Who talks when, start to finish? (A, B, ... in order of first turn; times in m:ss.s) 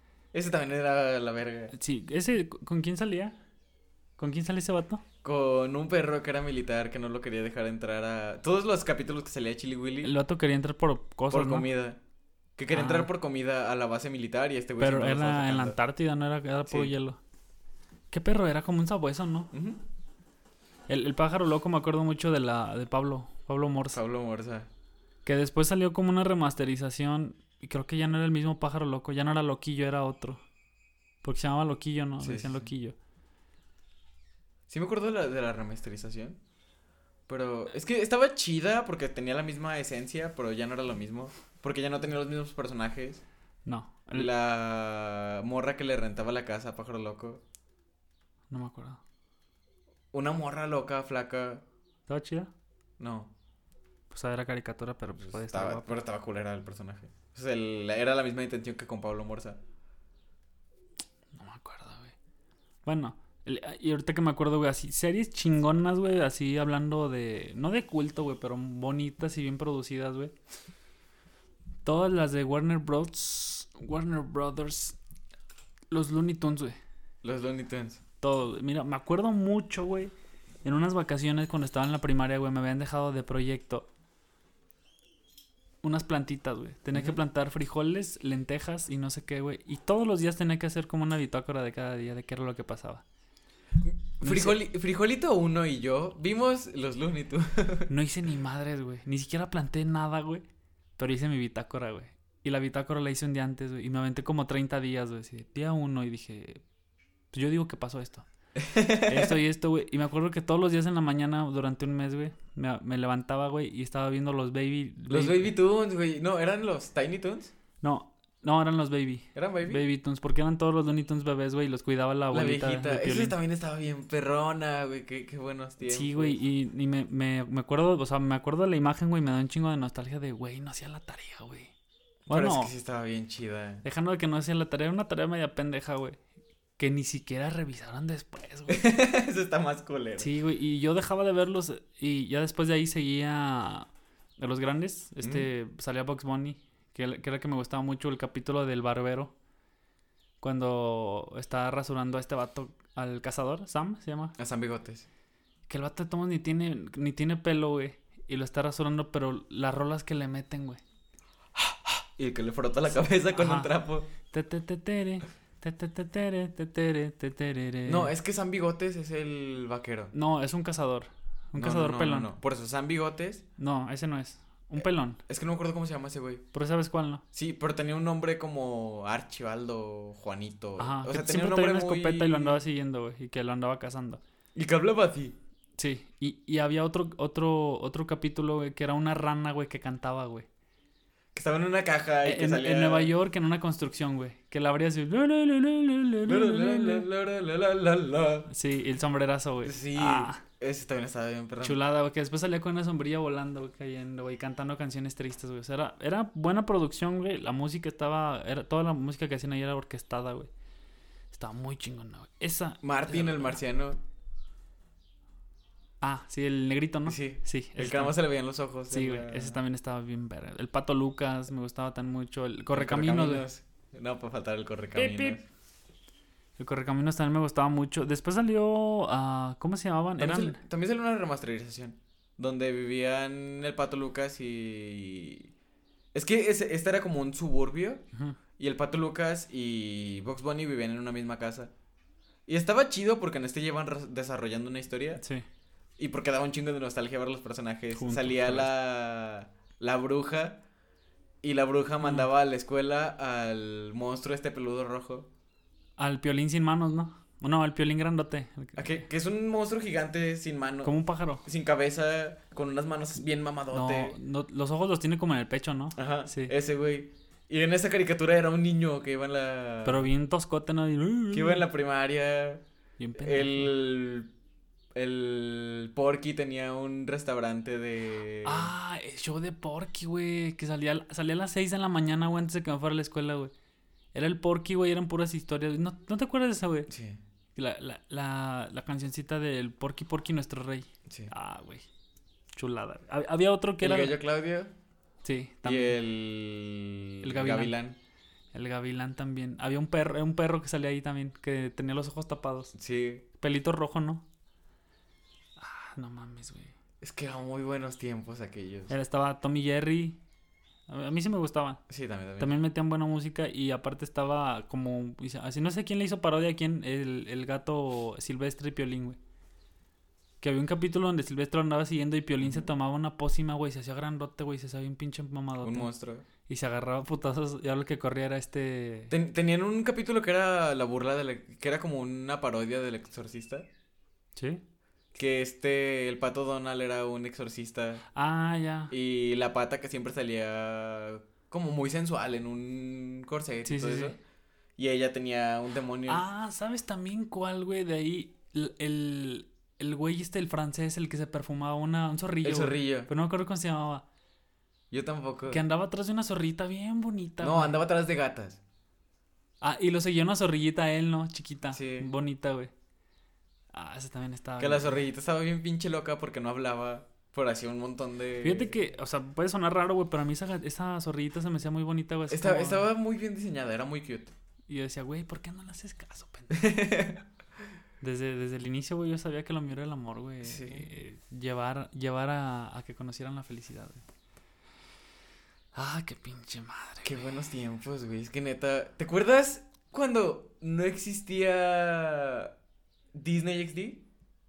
0:00.3-0:01.7 A
0:01.7-0:03.4 B
0:04.2-0:05.0 B
0:05.2-0:10.1 A
0:10.0-0:11.7 B
0:11.3-0:12.0 A
0:12.6-0:15.8 A
0:12.7-0:13.1 B
0:14.8-0:17.2 B
0:16.7-0:16.9 A
0:18.1-0:19.5 B
0:19.5-0:19.8 A
0:20.9-0:24.0 B
0:23.9-0:24.7 A
0:25.2-0:30.4 B
0:31.2-0:32.9 B
0:32.2-0:32.7 A
0:34.7-0:36.4 A
0:37.3-0:43.2 A
0:43.6-0:44.3 B
0:44.1-0:47.4 A
0:48.5-0:49.0 B
0:50.1-0:51.6 A
0:52.1-0:52.5 B
0:53.0-0:53.3 A
0:54.1-0:56.0 B
0:55.2-0:59.6 A
1:01.3-1:02.1 B
1:02.8-1:10.3 B
1:11.8-1:15.0 B
1:15.9-1:16.8 B
1:17.2-1:18.0 A
1:18.2-1:20.1 B
1:20.6-1:23.9 B
1:25.8-1:33.0 B
1:26.9-1:27.2 A
1:33.8-1:37.9 A
1:34.2-1:34.6 B
1:37.9-1:40.4 B
1:41.0-1:46.6 B
1:47.3-1:48.2 B
1:48.6-1:49.4 A
1:49.0-1:55.5 B
1:55.1-1:57.5 A
1:57.8-2:03.4 B
1:59.3-1:59.8 A
2:02.3-2:06.4 A
2:05.8-2:11.7 B
2:12.3-2:12.7 B
2:12.3-2:13.8 A
2:13.8-2:16.2 B
2:16.8-2:18.8 B
2:18.7-2:20.3 A
2:20.2-2:29.3 B
2:25.2-2:25.5 A
2:30.4-2:34.4 B
2:34.4-2:35.0 A
2:35.7-2:40.8 B
2:42.2-2:44.1 A
2:43.3-2:48.1 B
2:47.9-2:50.1 A
2:50.1-2:52.3 B
2:51.6-2:53.4 A
2:53.6-2:55.2 B
2:55.3-2:56.4 A
2:56.5-2:57.2 B
2:57.3-3:02.6 A
3:00.8-3:04.2 B
3:04.5-3:05.3 A
3:05.8-3:10.5 B
3:11.3-3:13.1 A
3:12.2-3:17.0 B
3:16.2-3:18.5 A
3:18.5-3:20.4 B
3:19.6-3:21.8 A
3:21.6-3:30.5 B
3:31.3-3:33.6 B
3:32.8-3:34.0 A
3:36.0-3:38.1 B
3:37.0-3:39.6 A
3:38.9-3:43.4 B
3:42.7-3:45.4 A
3:45.0-3:45.4 B
3:46.6-3:50.6 B
3:50.2-3:55.5 A
3:56.1-3:58.0 A
3:58.1-3:58.4 B
3:58.6-4:01.7 A
4:02.5-4:05.2 A
4:05.2-4:05.4 B
4:06.0-4:10.6 A
4:07.9-4:08.7 B
4:11.4-4:15.3 A
4:12.0-4:12.3 B
4:16.0-4:19.0 B
4:18.8-4:24.1 A
4:20.8-4:21.4 B
4:23.7-4:26.5 B
4:26.0-4:30.1 A
4:29.8-4:31.6 B
4:31.3-4:32.6 A
4:33.0-4:33.7 B
4:33.2-4:34.3 A
4:34.9-4:38.7 A
4:38.4-4:43.5 B
4:44.1-4:46.9 B
4:46.9-4:47.2 A
4:47.5-4:51.8 B
4:51.1-4:51.3 A
4:52.5-4:54.2 B
4:53.8-4:54.7 A
4:55.2-4:56.0 B
4:55.6-4:58.0 A
4:57.2-4:57.7 B
4:58.5-5:02.7 B
5:02.7-5:03.2 A
5:03.4-5:04.2 B
5:05.6-5:06.7 B
5:07.0-5:08.9 A
5:08.9-5:10.2 B
5:10.9-5:11.8 B
5:11.9-5:12.5 A
5:12.4-5:19.2 B
5:20.4-5:25.9 B
5:22.4-5:22.7 A
5:25.6-5:26.2 A
5:26.5-5:29.1 B
5:29.1-5:33.7 A
5:34.4-5:34.6 B
5:35.1-5:38.0 A
5:38.1-5:38.9 B
5:38.9-5:44.2 A
5:43.6-5:44.1 B
5:44.8-5:46.2 A
5:46.1-5:54.0 B
5:52.4-5:53.1 A
5:54.9-5:55.6 A
5:55.5-5:57.7 B
5:57.4-5:58.6 A
5:59.6-6:02.7 B
6:01.7-6:02.1 A
6:03.7-6:05.0 B
6:04.6-6:08.7 A
6:08.4-6:12.9 B
6:12.3-6:14.3 A
6:14.7-6:16.7 B
6:16.5-6:17.2 A
6:18.0-6:24.0 B
6:20.4-6:20.9 A
6:25.7-6:27.2 B
6:27.0-6:32.5 A
6:33.1-6:34.0 A